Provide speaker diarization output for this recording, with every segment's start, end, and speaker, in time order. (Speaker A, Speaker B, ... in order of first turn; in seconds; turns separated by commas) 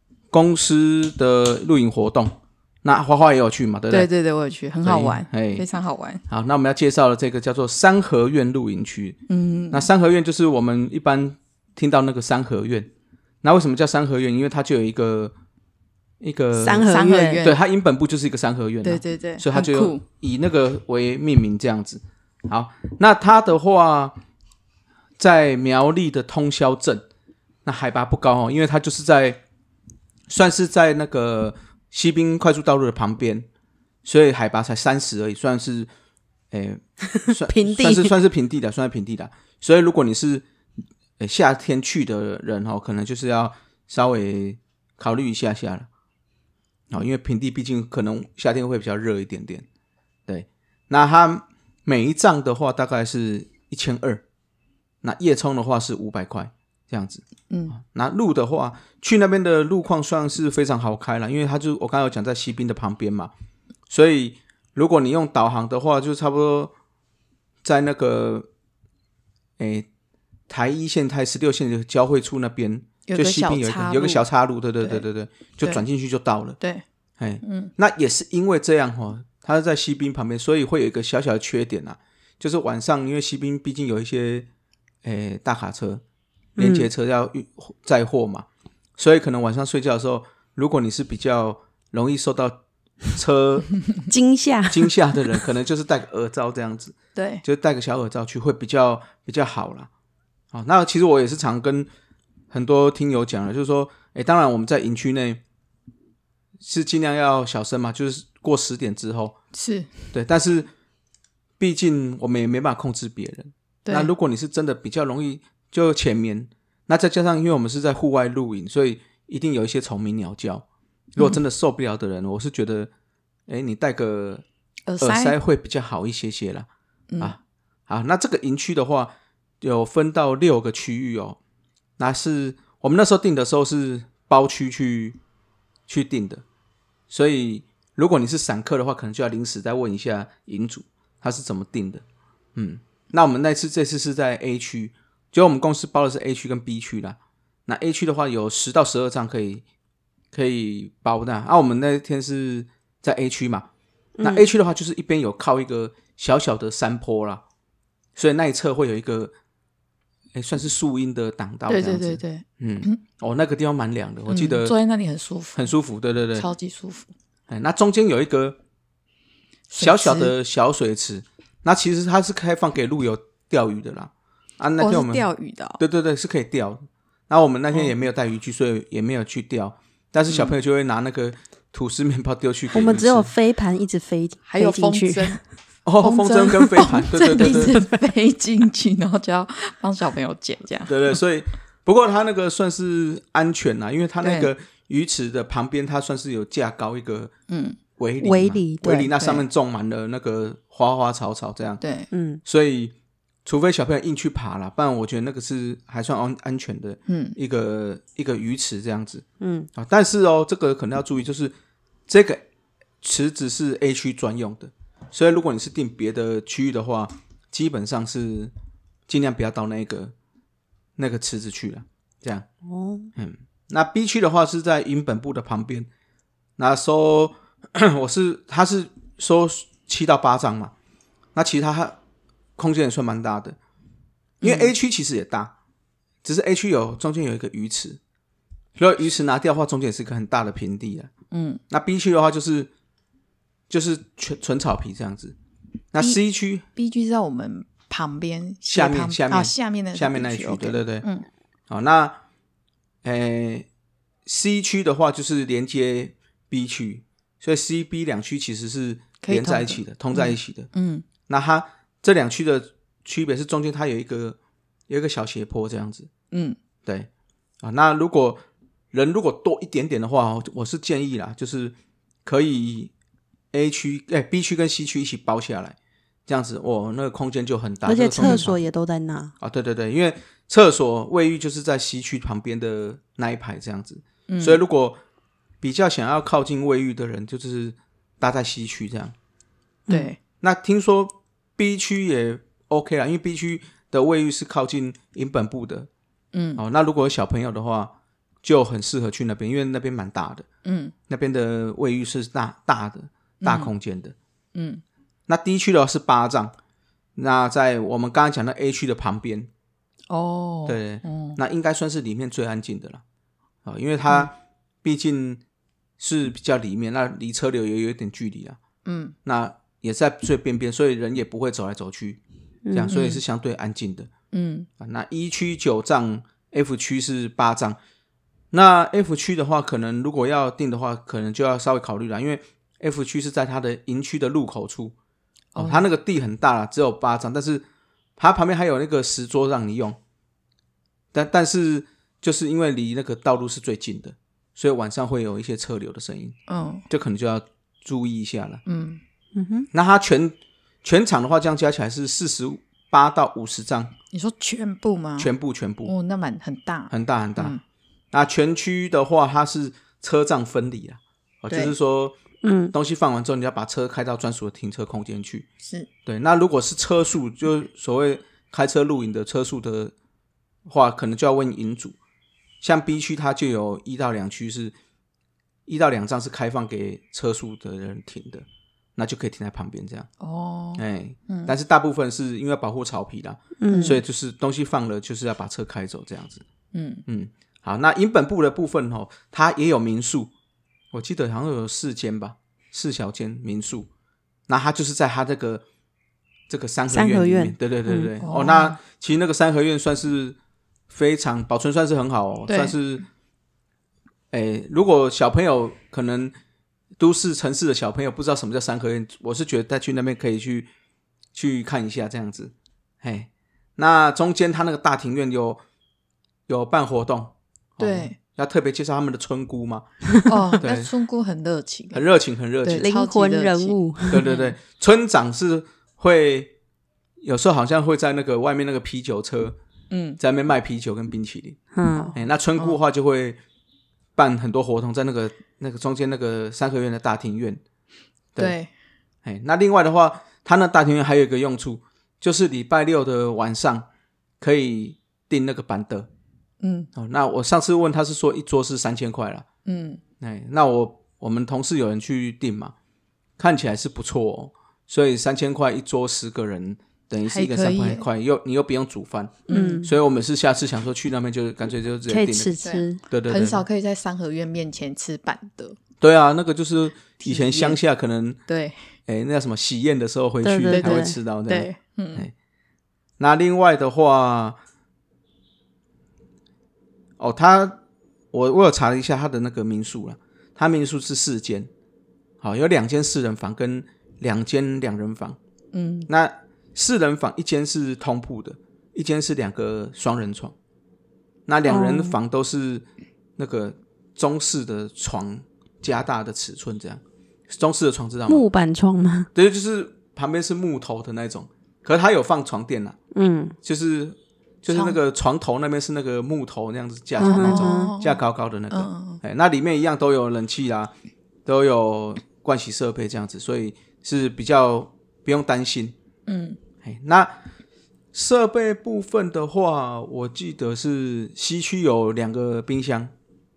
Speaker A: 0.3-4.1, Speaker B: 3.9-6.2, Speaker A: 4.8-5.7, Speaker A: 6.3-9.2, Speaker B: 9.3-9.9, Speaker A: 9.7-12.9, Speaker A: 13.4-15.3, Speaker A: 16.2-16.9, Speaker C: 16.6-17.4, Speaker B: 16.9-17.6, Speaker A: 17.4-24.1, Speaker B: 18.8-20.0, Speaker A: 25.2-27.1, Speaker A: 27.6-29.4, Speaker A: 30.3-33.5, Speaker A: 34.0-35.9, Speaker A: 36.5-40.4, Speaker C: 37.5-38.1, Speaker A: 41.2-45.9, Speaker A: 46.9-49.7, Speaker A: 50.3-54.2, Speaker A: 55.0-63.3, Speaker B: 57.5-57.8, Speaker A: 63.9-66.7, Speaker A: 67.6-68.5, Speaker A: 69.6-69.9, Speaker A: 70.5-76.6, Speaker B: 73.1-74.2, Speaker A: 77.2-84.5, Speaker B: 77.4-77.7, Speaker A: 85.0-86.0, Speaker C: 86.6-86.9, Speaker A: 86.6-88.5, Speaker A: 89.0-93.8, Speaker C: 94.1-94.9, Speaker A: 94.7-99.9, Speaker B: 97.2-97.4, Speaker A: 100.5-101.9, Speaker A: 102.5-105.4, Speaker A: 106.6-109.4, Speaker B: 109.5-109.9, Speaker A: 110.1-110.7, Speaker A: 111.6-120.7, Speaker B: 113.8-114.1, Speaker A: 121.2-122.9, Speaker A: 123.5-124.4, Speaker B: 124.9-125.4, Speaker A: 125.0-126.7, Speaker B: 127.1-127.3, Speaker A: 127.2-131.4, Speaker A: 132.0-135.2, Speaker A: 135.9-136.4, Speaker A: 137.1-142.0, Speaker A: 142.5-149.6, Speaker A: 150.3-153.7, Speaker C: 154.2-154.5, Speaker A: 154.2-157.4, Speaker A: 158.2-159.3, Speaker A: 160.3-164.7, Speaker B: 161.7-163.0, Speaker B: 164.3-165.7, Speaker A: 165.6-166.5, Speaker B: 166.3-167.1, Speaker A: 167.5-168.6, Speaker B: 169.7-170.3, Speaker A: 169.8-175.3, Speaker B: 174.8-175.8, Speaker A: 175.8-183.3, Speaker C: 182.7-185.4, Speaker B: 184.5-185.4, Speaker A: 185.8-187.8, Speaker B: 186.0-191.2, Speaker C: 187.4-187.8, Speaker A: 190.9-197.3, Speaker B: 194.2-194.5, Speaker B: 197.5-197.8, Speaker A: 198.0-201.8, Speaker C: 198.2-199.1, Speaker B: 199.1-199.4, Speaker B: 201.8-202.1, Speaker C: 202.1-202.4, Speaker A: 202.4-202.9, Speaker A: 203.4-209.2, Speaker B: 207.1-207.4, Speaker C: 209.4-209.7, Speaker A: 209.8-211.5, Speaker A: 212.1-212.4, Speaker A: 213.0-218.5, Speaker A: 219.1-220.1, Speaker A: 221.0-222.5, Speaker C: 222.7-223.1, Speaker A: 223.2-225.9, Speaker A: 226.6-230.7, Speaker A: 231.3-232.0, Speaker A: 232.6-233.6, Speaker B: 234.4-234.7, Speaker A: 234.4-235.5, Speaker A: 236.2-238.0, Speaker A: 238.8-241.1, Speaker B: 241.3-241.6, Speaker A: 241.7-242.7, Speaker A: 243.7-245.3, Speaker A: 245.9-246.6, Speaker B: 246.7-251.3, Speaker A: 248.7-251.1, Speaker A: 251.7-252.2, Speaker A: 253.0-253.7, Speaker A: 254.3-260.7, Speaker B: 259.2-261.1, Speaker A: 261.2-264.4, Speaker A: 264.9-266.1, Speaker B: 266.3-266.6, Speaker A: 266.8-267.1, Speaker A: 267.6-272.9, Speaker A: 273.5-275.8, Speaker A: 276.3-278.6, Speaker C: 277.9-279.3, Speaker A: 279.4-285.0, Speaker B: 284.3-284.6, Speaker A: 285.6-289.1, Speaker C: 289.9-290.1, Speaker B: 289.9-290.2, Speaker A: 290.4-295.9, Speaker B: 296.3-296.6, Speaker A: 296.6-300.4, Speaker B: 300.6-300.9, Speaker A: 301.1-304.1, Speaker B: 303.4-303.7, Speaker B: 304.5-304.8, Speaker A: 305.3-306.5, Speaker A: 307.1-309.5, Speaker B: 310.1-311.4, Speaker A: 310.6-313.0, Speaker A: 313.6-315.4, Speaker A: 316.0-318.6, Speaker B: 318.9-319.1, Speaker A: 319.2-322.2, Speaker C: 322.6-323.1, Speaker A: 322.7-324.1, Speaker B: 324.3-324.7, Speaker A: 324.8-327.8, Speaker A: 328.5-334.9, Speaker B: 335.5-335.9, Speaker A: 335.5-337.6, Speaker A: 338.2-340.0, Speaker A: 341.1-346.4, Speaker B: 346.5-346.9, Speaker A: 346.9-348.6, Speaker B: 348.6-349.0, Speaker C: 349.4-349.7, Speaker A: 349.7-353.9, Speaker B: 354.1-355.3, Speaker A: 355.2-355.9, Speaker B: 355.9-357.6, Speaker A: 356.9-357.6, Speaker A: 358.1-362.2, Speaker B: 361.5-361.8, Speaker C: 362.4-362.7, Speaker A: 362.7-365.5, Speaker B: 365.6-365.9, Speaker A: 366.0-369.9, Speaker A: 370.7-372.0, Speaker A: 372.6-374.8, Speaker A: 375.7-378.4, Speaker A: 379.0-380.1, Speaker B: 380.2-381.5, Speaker A: 380.8-386.4, Speaker C: 383.6-384.0, Speaker B: 386.7-387.0, Speaker A: 387.1-390.3, Speaker A: 390.9-393.9, Speaker A: 394.5-395.6, Speaker A: 396.5-400.4, Speaker C: 396.9-398.1, Speaker B: 398.2-398.8, Speaker A: 400.9-403.1, Speaker B: 402.5-402.8, Speaker A: 404.3-406.3, Speaker A: 407.0-410.7, Speaker A: 411.3-415.6, Speaker A: 416.5-420.0, Speaker B: 417.8-418.2, Speaker B: 420.3-422.0, Speaker A: 420.6-420.9, Speaker A: 421.9-422.9, Speaker B: 422.6-423.8, Speaker C: 422.8-424.3, Speaker A: 424.1-426.5, Speaker A: 427.2-429.6, Speaker B: 429.9-430.2, Speaker A: 430.2-433.4, Speaker C: 431.7-432.2, Speaker B: 431.9-432.8, Speaker A: 434.1-437.6, Speaker B: 438.4-438.7, Speaker A: 439.2-443.9, Speaker A: 444.4-446.1, Speaker B: 446.6-446.9, Speaker A: 446.9-449.5, Speaker B: 449.6-450.0, Speaker A: 450.2-452.7, Speaker A: 453.4-463.6, Speaker B: 457.2-458.0, Speaker B: 459.5-459.8, Speaker C: 459.5-459.9, Speaker C: 462.1-463.0, Speaker B: 462.6-465.8, Speaker A: 466.0-468.4, Speaker B: 467.1-467.8, Speaker B: 468.5-468.8, Speaker A: 469.1-472.3, Speaker C: 470.4-471.1, Speaker B: 470.7-472.3, Speaker A: 473.2-474.6, Speaker A: 477.2-477.8, Speaker A: 478.3-481.7, Speaker A: 482.4-485.4, Speaker B: 485.7-486.1, Speaker A: 486.1-490.5, Speaker A: 491.5-492.9, Speaker C: 491.7-492.1, Speaker A: 493.4-498.4, Speaker C: 498.3-499.3, Speaker A: 499.3-503.0, Speaker C: 503.1-503.5, Speaker A: 503.6-510.9, Speaker B: 504.7-505.0, Speaker C: 507.2-507.9, Speaker B: 507.2-509.2, Speaker A: 511.4-515.9, Speaker B: 516.3-516.6, Speaker A: 516.8-517.4, Speaker A: 518.1-523.1